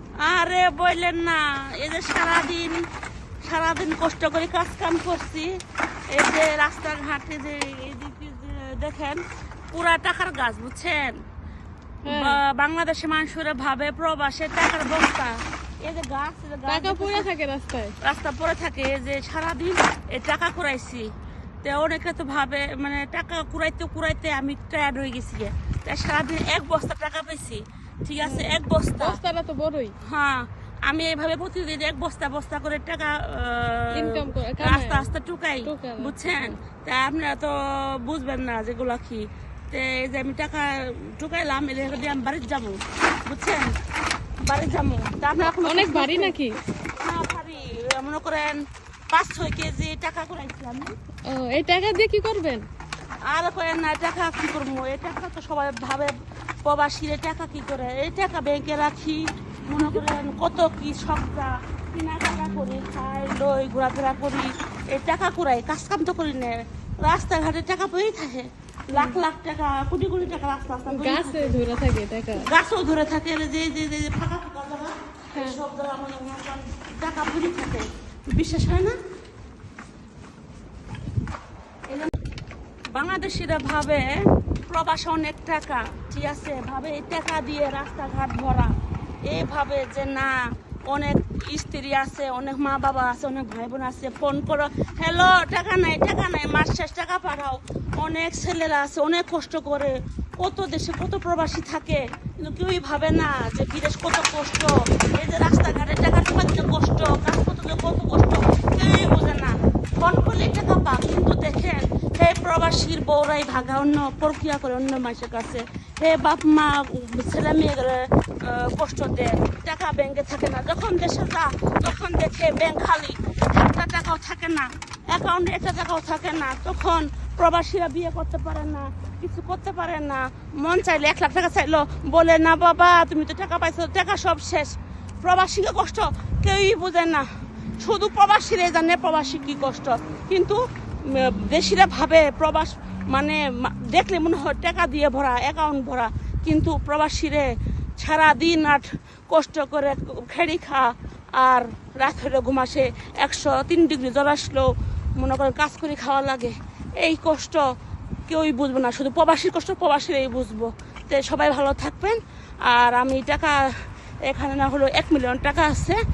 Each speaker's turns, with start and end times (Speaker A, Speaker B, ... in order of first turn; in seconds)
Speaker A: 0.2-2.8, 3.4-5.5, 6.1-9.2, 9.7-11.2, 12.1-17.3, 18.0-21.1, 21.6-29.2, 30.0-43.7, 44.5-46.4, 47.0-50.9, 53.3-56.1, 56.6-71.6, 72.4-79.0, 82.9-84.1, 84.7-88.7, 89.3-137.3, 137.8-147.5, 148.0-157.6, 158.3-163.6, 164.3-166.0
Speaker B: 12.1-12.4, 16.7-17.9, 28.2-29.9, 33.9-35.1, 35.6-36.6, 45.4-46.6, 51.3-52.7, 68.9-69.2, 70.9-72.5, 75.3-75.6